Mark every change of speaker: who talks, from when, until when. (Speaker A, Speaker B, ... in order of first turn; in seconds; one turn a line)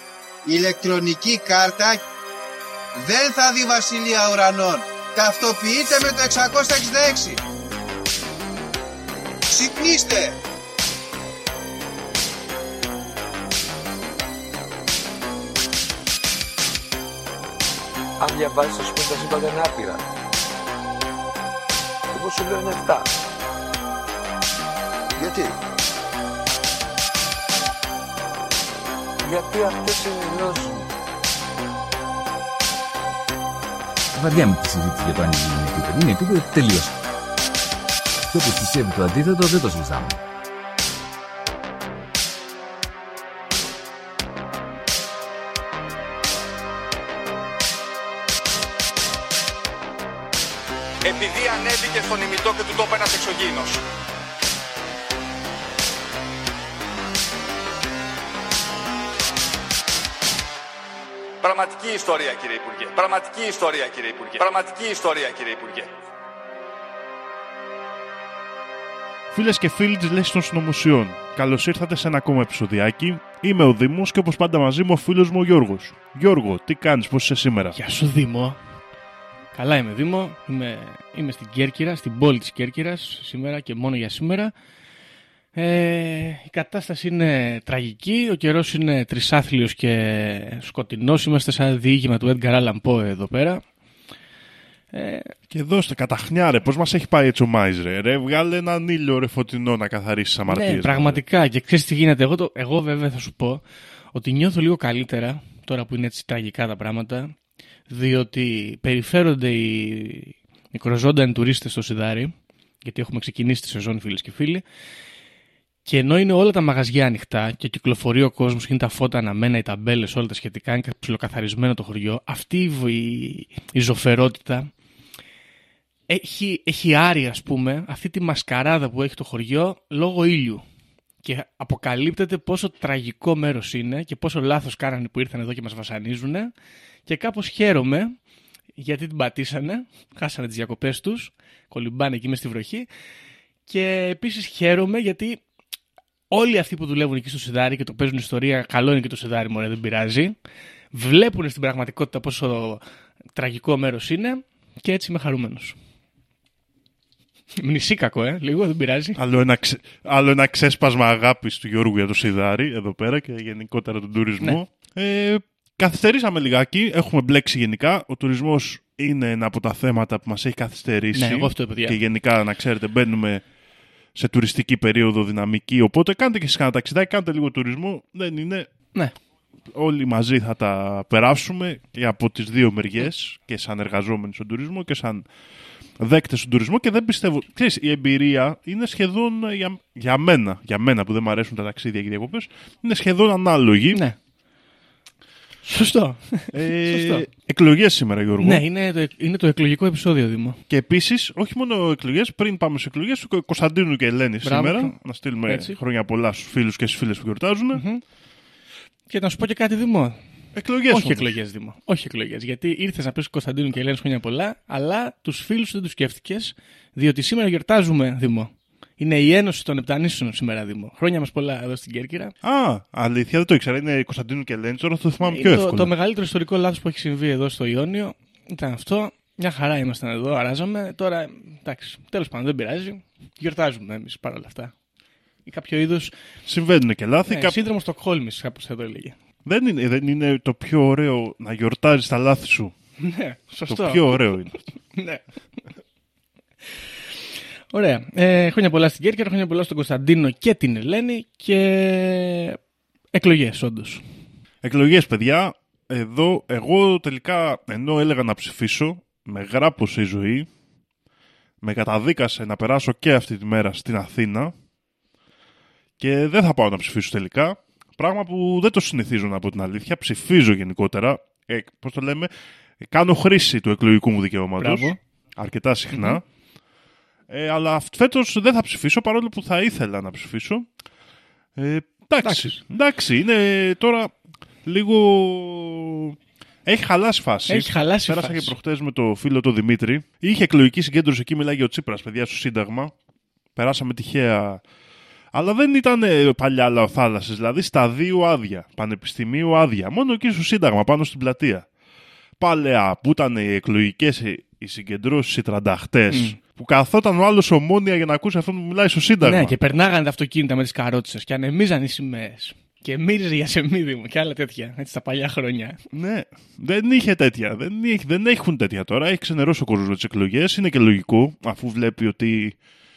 Speaker A: 0.4-2.0
Speaker A: 3.0-7.4
Speaker A: 9.5-10.3
Speaker B: 18.2-20.1
Speaker B: 22.1-23.1
Speaker B: 25.2-25.6
Speaker B: 29.2-30.9
Speaker C: 34.1-37.0
Speaker C: 38.3-40.2
Speaker D: 51.0-53.8
Speaker D: 61.4-65.9
Speaker E: 69.3-77.8
Speaker F: 77.7-78.6
Speaker F: 79.5-84.5
Speaker F: 85.5-93.6
Speaker F: 94.9-95.3
Speaker E: 95.5-101.2
Speaker F: 100.5-107.3
Speaker F: 107.9-114.6
Speaker F: 115.8-124.7
Speaker F: 126.1-130.6
Speaker F: 131.2-136.5
Speaker F: 137.1-138.1
Speaker F: 138.8-142.9
Speaker F: 143.7-145.4
Speaker F: 146.3-150.3
Speaker F: 150.9-152.8
Speaker F: 153.3-155.8
Speaker F: 157.6-159.2
Speaker E: 159.2-173.4
Speaker F: 171.1-172.0
Speaker E: 174.1-178.7
Speaker E: 179.7-185.3
Speaker E: 186.0-194.0
Speaker F: 195.6-197.2
Speaker E: 196.5-198.6
Speaker F: 198.4-200.6
Speaker E: 200.7-207.8
Speaker F: 204.4-205.8
Speaker F: 207.7-208.0
Speaker F: 209.1-210.2
Speaker E: 210.5-211.3
Speaker F: 210.9-222.3
Speaker E: 222.4-225.9
Speaker F: 225.2-234.7
Speaker F: 235.4-236.1
Speaker E: 236.4-237.6
Speaker F: 237.3-239.2
Speaker E: 239.4-242.7
Speaker F: 243.0-245.2
Speaker E: 243.7-244.6
Speaker F: 247.7-252.6
Speaker F: 253.1-254.0
Speaker E: 254.6-260.5
Speaker E: 261.6-264.5
Speaker E: 266.0-276.2
Speaker F: 274.6-275.0
Speaker F: 275.9-276.2
Speaker E: 277.3-280.7
Speaker E: 281.6-284.1
Speaker F: 282.2-282.6
Speaker E: 284.6-292.9
Speaker F: 287.5-288.5
Speaker E: 293.6-294.6
Speaker E: 295.3-301.6
Speaker E: 302.4-309.5
Speaker F: 306.1-306.4
Speaker F: 309.2-315.8
Speaker E: 315.9-322.6